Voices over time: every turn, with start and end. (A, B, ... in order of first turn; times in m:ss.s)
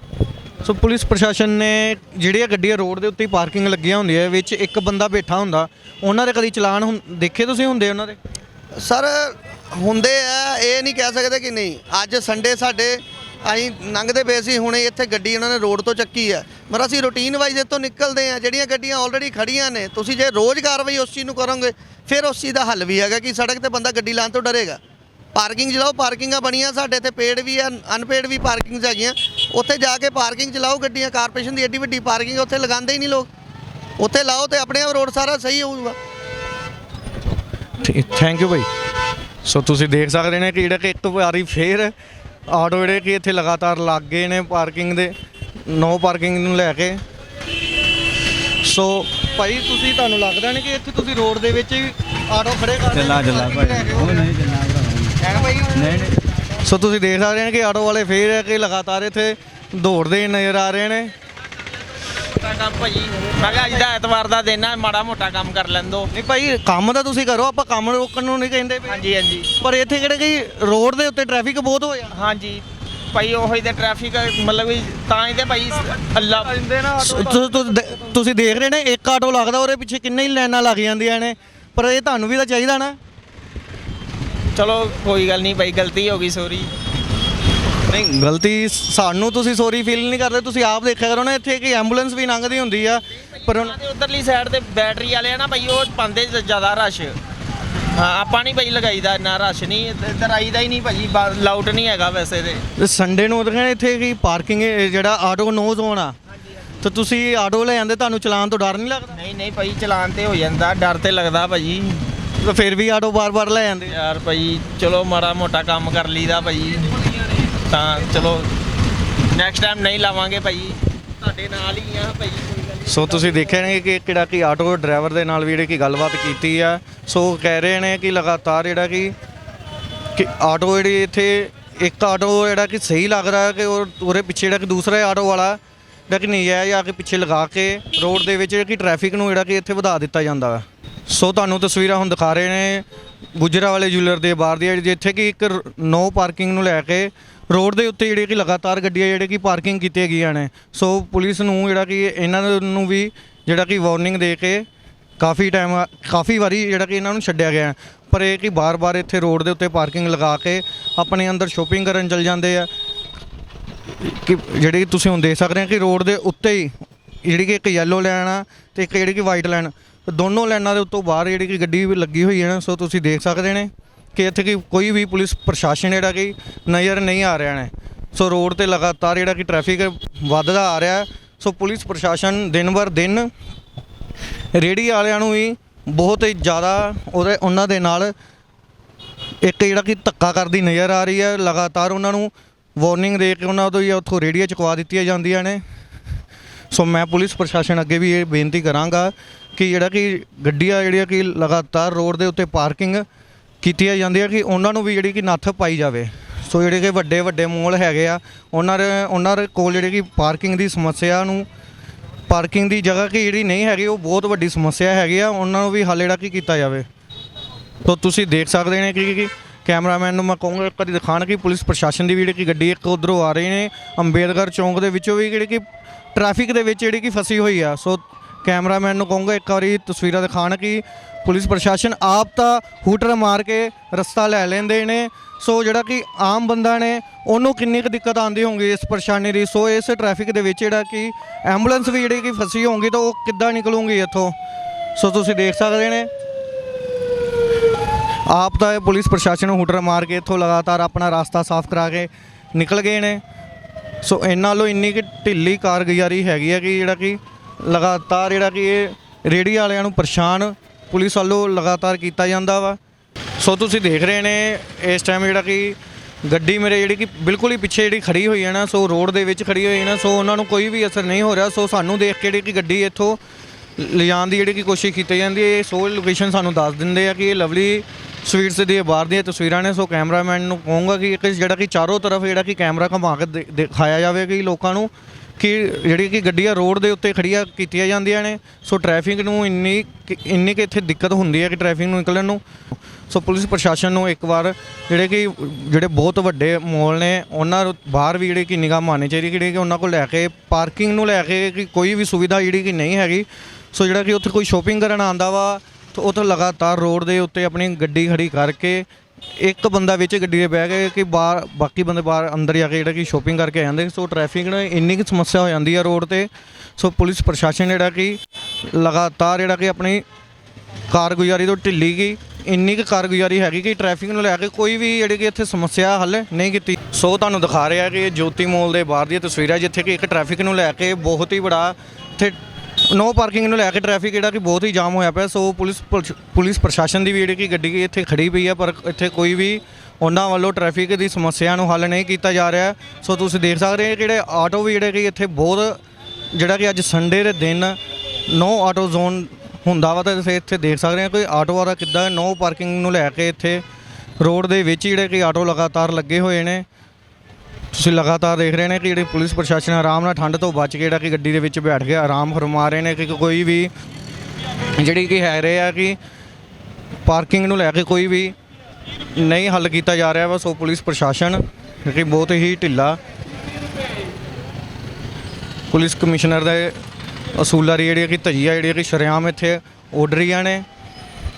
0:00.6-0:08.2 A
0:08.8-0:24.8 B
0:25.3-0:33.3 B
0:34.0-0:36.0 B
0:37.8-0:38.7 A
0:39.4-0:41.9 A
0:42.5-0:45.1 A
0:45.7-0:47.0 A
0:48.6-0:54.3 A
0:53.0-0:55.2 C
0:55.2-0:55.8 A
0:55.7-0:56.2 C
0:56.6-1:01.1 A
1:02.0-1:06.1 D
1:06.1-1:09.0 A
1:08.9-1:09.5 D
1:09.6-1:12.1 A
1:12.1-1:16.9 D
1:16.9-1:23.0 A
1:24.5-1:26.7 D
1:27.9-1:33.7 A
1:33.4-1:37.2 D
1:37.9-1:42.6 D
1:42.8-1:46.1 A
1:46.8-1:49.1 A
1:49.1-1:52.0 D
1:52.4-1:53.9 A
1:53.9-1:58.5 D
1:59.3-2:03.3 D
2:02.9-2:09.1 A
2:10.1-2:22.8 A
2:23.4-2:34.6 A
2:35.2-2:42.7 A
2:44.0-3:03.3 A
3:04.5-3:08.1 A
3:09.4-3:15.6 A
3:16.7-3:23.0 A
3:23.6-3:31.5 A
3:32.3-3:36.8 A
3:37.8-4:04.3 A
4:05.0-4:06.1 A
4:08.3-4:13.2 A
4:14.0-4:22.8 A
4:23.4-4:33.2 A
4:33.8-4:52.4 A
4:53.1-5:08.9 A
5:09.4-5:18.2 A
5:18.7-5:20.0 A
5:20.9-5:32.4 A
5:32.9-5:45.8 A
5:46.3-5:47.8 A
5:48.3-5:53.6 A
5:54.2-5:56.6 A
5:57.7-6:03.7 A
6:04.8-6:06.0 A
6:07.0-6:08.3 A
6:09.1-6:13.0 A
6:15.7-6:16.8 A
6:17.4-6:20.6 A